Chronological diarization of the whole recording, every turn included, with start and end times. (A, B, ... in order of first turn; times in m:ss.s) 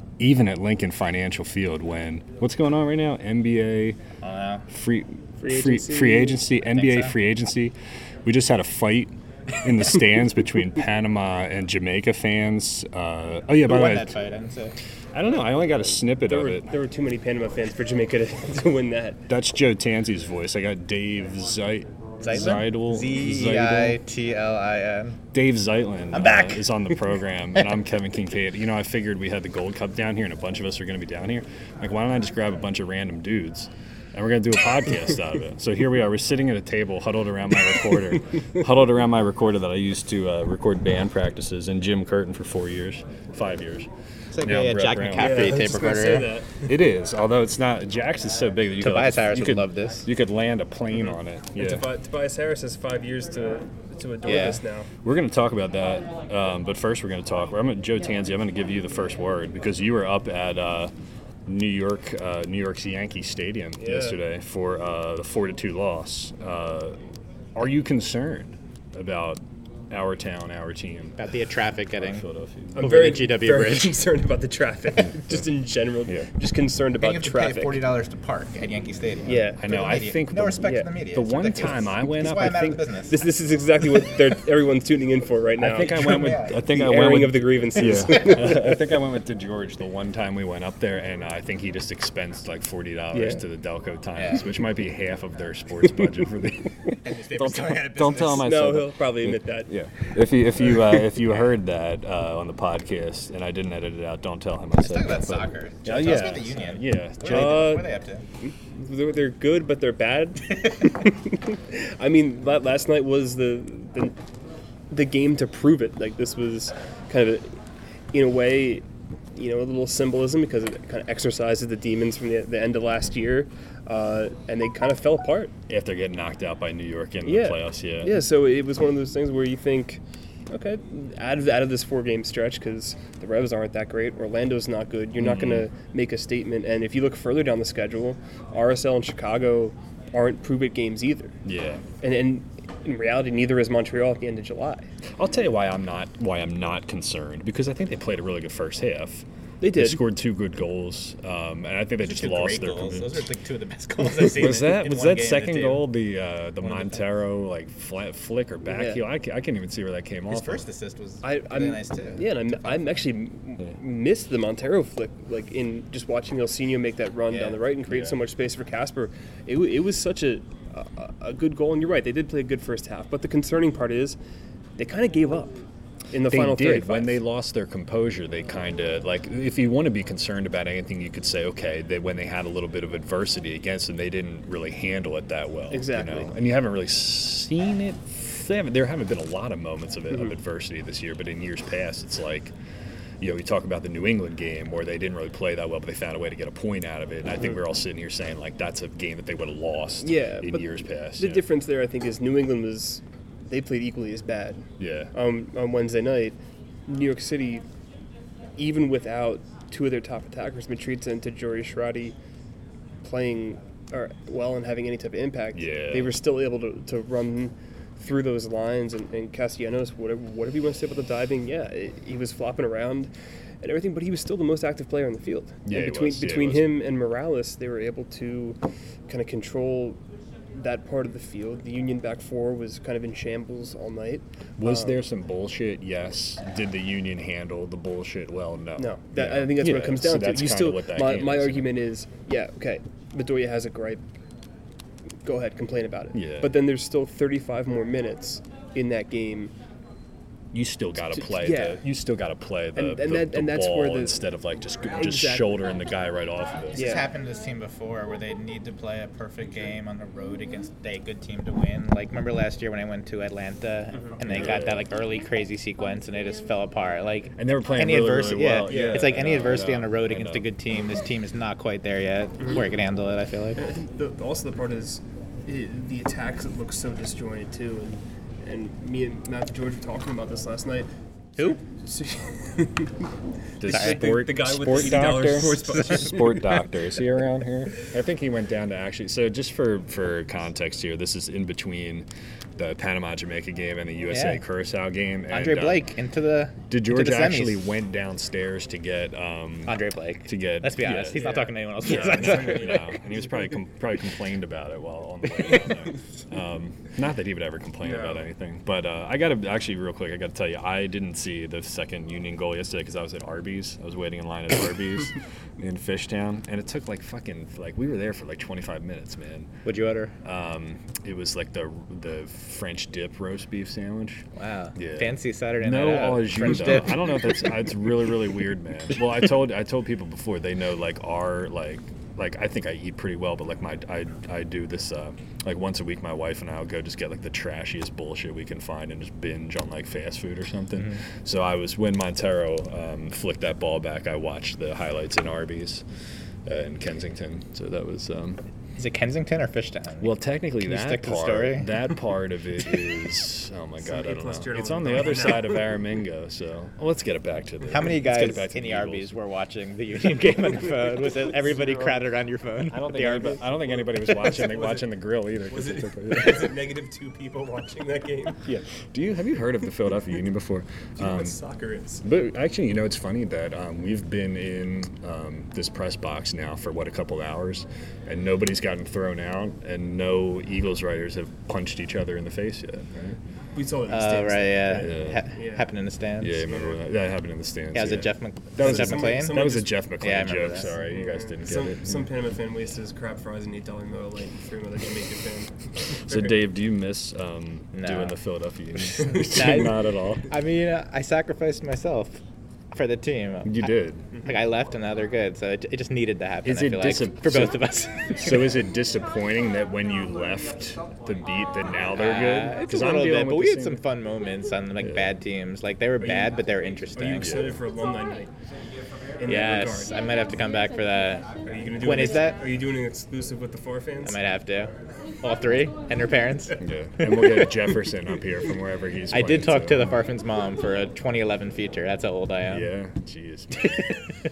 0:00.2-0:04.0 A
0:04.2-0:04.7 B
0:04.7-0:14.2 A
0:05.4-0:06.4 C
0:06.6-0:07.2 B
0:13.6-0:14.8 B
0:15.1-0:16.7 A
0:16.2-0:19.2 C
0:19.3-0:24.0 A
0:22.2-0:25.2 B
0:25.3-0:43.9 A
0:26.1-0:26.7 B
0:44.3-0:46.3 B
0:44.4-0:45.7 A
0:45.2-0:46.7 C
0:46.6-0:51.8 A
0:48.8-0:50.1 B
0:51.0-0:54.9 C
0:54.2-0:54.6 B
0:55.0-1:00.9 A
1:01.5-1:07.0 A
1:03.8-1:04.2 C
1:07.6-1:11.2 A
1:11.2-1:12.3 B
1:12.0-1:12.9 A
1:12.7-1:17.8 C
1:12.8-1:14.0 B
1:17.0-1:23.2 B
1:19.2-1:19.9 C
1:19.6-1:22.8 A
1:20.6-1:20.9 C
1:23.1-1:28.8 C
1:25.6-1:47.8 A
1:26.1-1:26.5 B
1:33.1-1:33.4 C
1:34.2-1:34.5 B
1:37.0-1:38.5 B
1:38.3-1:39.7 C
1:44.8-1:48.3 B
1:47.2-1:54.2 C
1:54.9-1:57.6 C
1:58.1-2:05.5 C
2:05.7-2:08.1 A
2:07.2-2:21.4 C
2:15.2-2:15.7 A
2:21.4-2:21.8 A
2:22.0-2:24.9 C
2:25.2-2:33.2 A
2:29.6-2:30.0 C
2:32.0-2:35.9 B
2:34.4-2:40.6 A
2:36.6-2:37.1 B
2:38.7-2:39.0 C
2:40.3-2:42.8 B
2:41.2-2:54.2 C
2:47.3-2:47.6 B
2:47.9-2:48.2 A
2:54.8-2:57.2 C
2:56.3-3:12.5 A
3:05.7-3:06.3 C
3:13.2-3:21.4 A
3:20.0-3:27.6 C
3:24.8-3:25.1 A
3:28.6-3:32.2 C
3:33.0-3:50.0 C
3:35.5-3:36.1 A
3:45.6-3:46.7 A
3:50.6-3:55.0 C
3:54.6-4:01.7 A
3:58.8-4:04.0 C
4:05.2-4:09.5 C
4:06.1-4:06.5 A
4:10.5-4:17.0 A
4:11.1-4:11.8 C
4:12.8-4:14.2 C
4:14.9-4:15.8 C
4:16.7-4:33.6 B
4:16.7-4:17.1 C
4:24.2-4:24.8 A
4:27.4-4:30.5 A
4:28.7-4:29.1 C
4:33.6-4:40.9 C
4:41.4-4:43.0 C
4:43.6-4:55.9 A
4:43.6-4:46.6 C
4:43.7-4:44.0 B
4:54.1-4:54.4 B
4:55.3-4:57.7 B
4:56.7-5:01.2 A
4:59.7-5:02.9 B
5:01.1-5:03.6 C
5:01.8-5:19.5 A
5:07.8-5:08.2 C
5:19.6-5:20.2 B
5:20.2-5:45.8 A
5:24.3-5:27.3 B
5:46.5-5:48.4 A
5:48.8-5:51.7 B
5:50.0-5:59.2 A
5:53.8-5:55.6 C
5:57.7-6:03.4 B
6:01.6-6:02.0 C
6:02.7-6:06.5 A
6:04.0-6:04.9 C
6:05.5-6:08.4 C
6:08.4-6:11.4 A
6:11.0-6:12.0 C
6:12.0-6:23.2 A
6:23.6-6:25.7 C
6:23.9-6:26.5 B
6:24.8-6:25.2 A
6:26.2-6:32.1 A
6:26.5-6:26.8 C
6:27.7-6:30.8 B
6:28.6-6:29.8 C
6:30.8-6:36.4 C
6:36.1-6:40.3 A
6:37.7-6:38.2 B
6:39.1-6:39.6 C
6:39.2-6:42.2 B
6:42.7-6:43.7 B
6:43.4-6:44.1 A
6:44.2-6:48.6 B
6:46.4-6:53.8 A
6:51.9-6:57.6 B
6:56.0-6:56.4 C
6:56.9-6:58.3 C
6:57.2-6:57.6 A
6:59.2-7:00.1 C
6:59.2-7:02.4 B
7:01.4-7:04.2 C
7:04.0-7:06.6 B
7:06.6-7:09.9 A
7:09.1-7:12.7 B
7:12.5-7:14.0 A
7:13.6-7:13.9 B